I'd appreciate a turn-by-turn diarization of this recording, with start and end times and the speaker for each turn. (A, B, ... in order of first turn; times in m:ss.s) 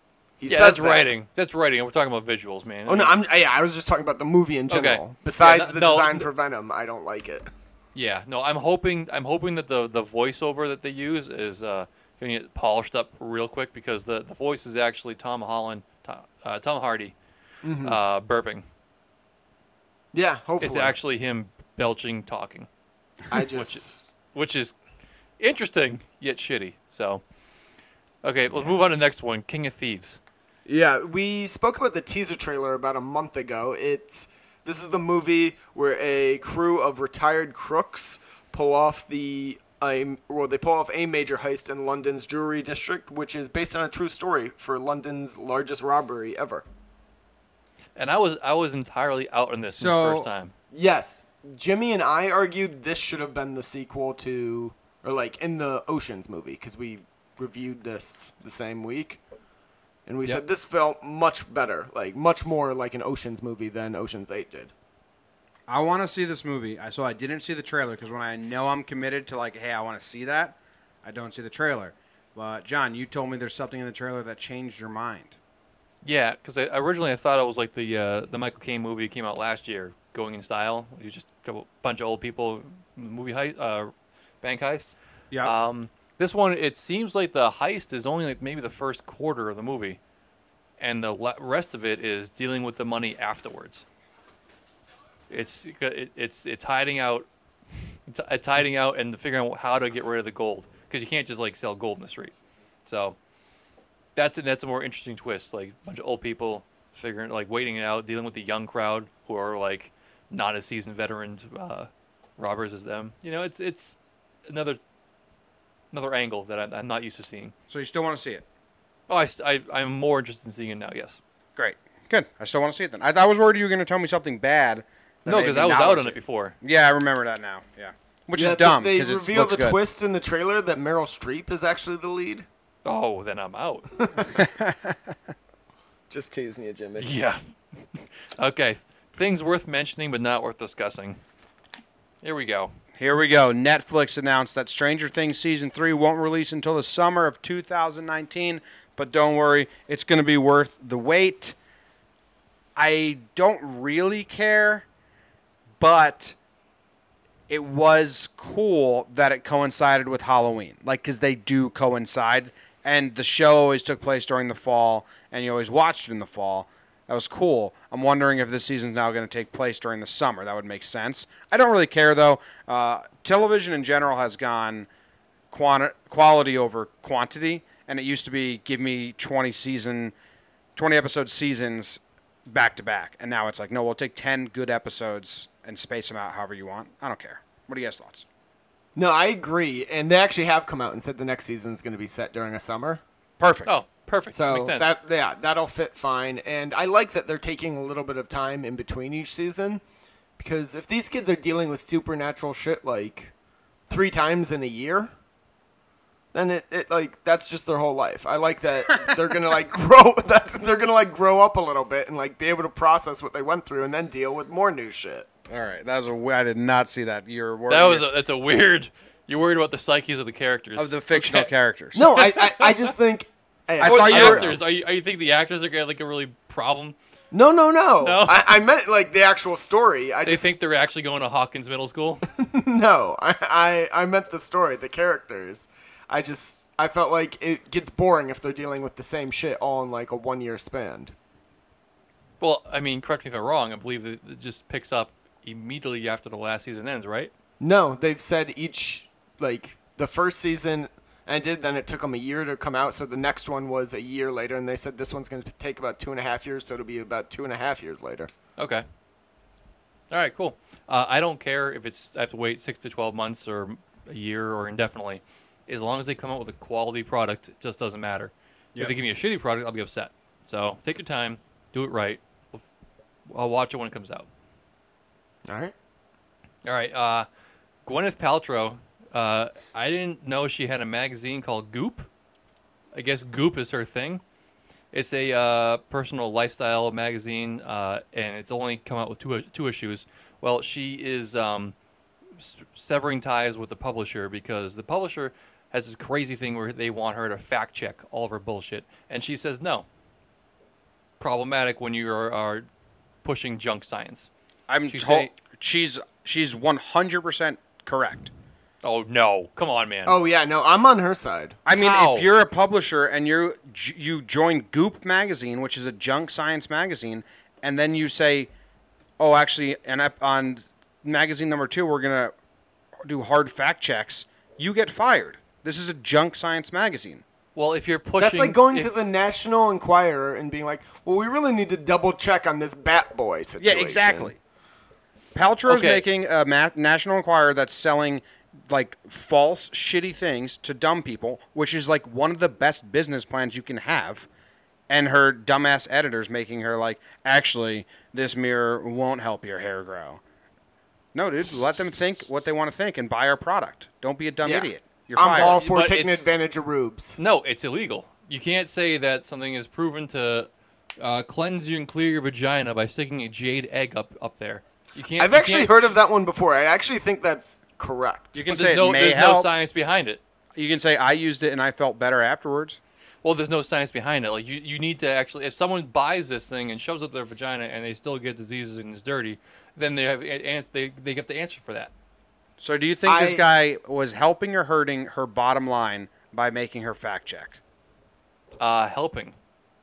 0:00.4-0:01.1 A
0:00.5-0:03.1 B
0:02.9-0:07.5 A
0:04.7-0:06.3 B
0:07.9-0:17.1 B
0:17.6-0:18.0 A
0:17.8-0:18.6 B
0:20.1-0:21.0 A
0:20.6-0:22.7 B
0:23.3-0:24.0 A
0:23.3-0:23.8 B
0:24.3-0:24.8 B
0:25.4-0:27.2 B
0:28.2-0:30.2 B
0:30.7-0:46.6 A
0:48.0-0:50.5 B
0:49.7-0:50.3 C
0:50.7-0:59.2 A
1:00.0-1:04.7 A
1:05.7-1:15.4 C
1:16.0-1:30.0 B
1:30.8-1:33.8 B
1:35.3-1:37.3 B
1:38.1-1:42.3 B
1:42.8-1:43.2 B
1:44.2-1:54.8 B
1:55.9-1:57.5 B
1:57.7-1:58.4 C
1:59.1-2:01.2 B
2:01.6-2:09.8 C
2:05.2-2:06.6 B
2:08.4-2:12.4 A
2:12.8-2:13.9 B
2:14.0-2:14.3 A
2:14.3-2:15.1 C
2:16.1-2:17.1 A
2:17.0-2:17.4 B
2:17.9-2:21.2 B
2:22.2-2:22.7 B
2:23.0-2:31.6 C
2:32.8-2:34.8 C
2:35.8-2:36.4 C
2:37.5-2:54.9 C
2:55.5-3:00.1 C
3:00.7-3:08.2 C
3:09.0-3:13.0 A
3:13.4-3:13.7 C
3:13.6-3:14.9 B
3:14.3-3:19.8 A
3:20.4-3:23.3 A
3:23.9-3:25.1 A
3:26.3-3:35.3 A
3:35.5-3:38.1 C
3:37.7-3:42.9 B
3:40.8-3:42.0 C
3:42.0-3:44.6 A
3:43.8-3:44.5 C
3:43.8-3:47.0 B
3:47.3-3:50.4 A
3:48.0-3:48.6 B
3:50.2-3:52.2 B
3:52.3-4:01.1 A
4:02.4-4:07.3 B
4:07.6-4:18.3 A
4:18.6-4:18.8 B
4:20.1-4:32.6 B
4:33.3-4:34.3 B
4:35.5-4:35.7 A
4:36.6-4:37.3 B
4:37.8-4:42.1 B
4:42.9-4:44.2 B
4:44.9-4:51.7 B
4:52.4-4:59.8 B
5:01.2-5:02.6 B
5:03.2-5:04.3 B
5:04.7-5:08.3 C
5:04.9-5:05.3 B
5:08.8-5:10.2 B
5:10.0-5:11.6 A
5:11.6-5:18.5 C
5:11.7-5:12.3 B
5:19.2-5:22.3 C
5:23.0-5:27.2 C
5:27.6-5:28.9 B
5:28.2-5:34.3 A
5:33.6-5:34.4 C
5:35.3-5:44.3 C
5:35.7-5:36.0 B
5:44.9-5:50.2 C
5:51.1-5:55.6 C
5:54.4-5:57.2 A
5:55.3-5:56.3 B
5:57.2-6:05.8 B
6:05.2-6:08.4 A
6:08.3-6:09.5 C
6:08.5-6:10.2 B
6:10.5-6:12.8 C
6:13.2-6:21.9 B
6:22.6-6:27.6 C
6:23.0-6:23.4 A
6:28.6-6:29.3 B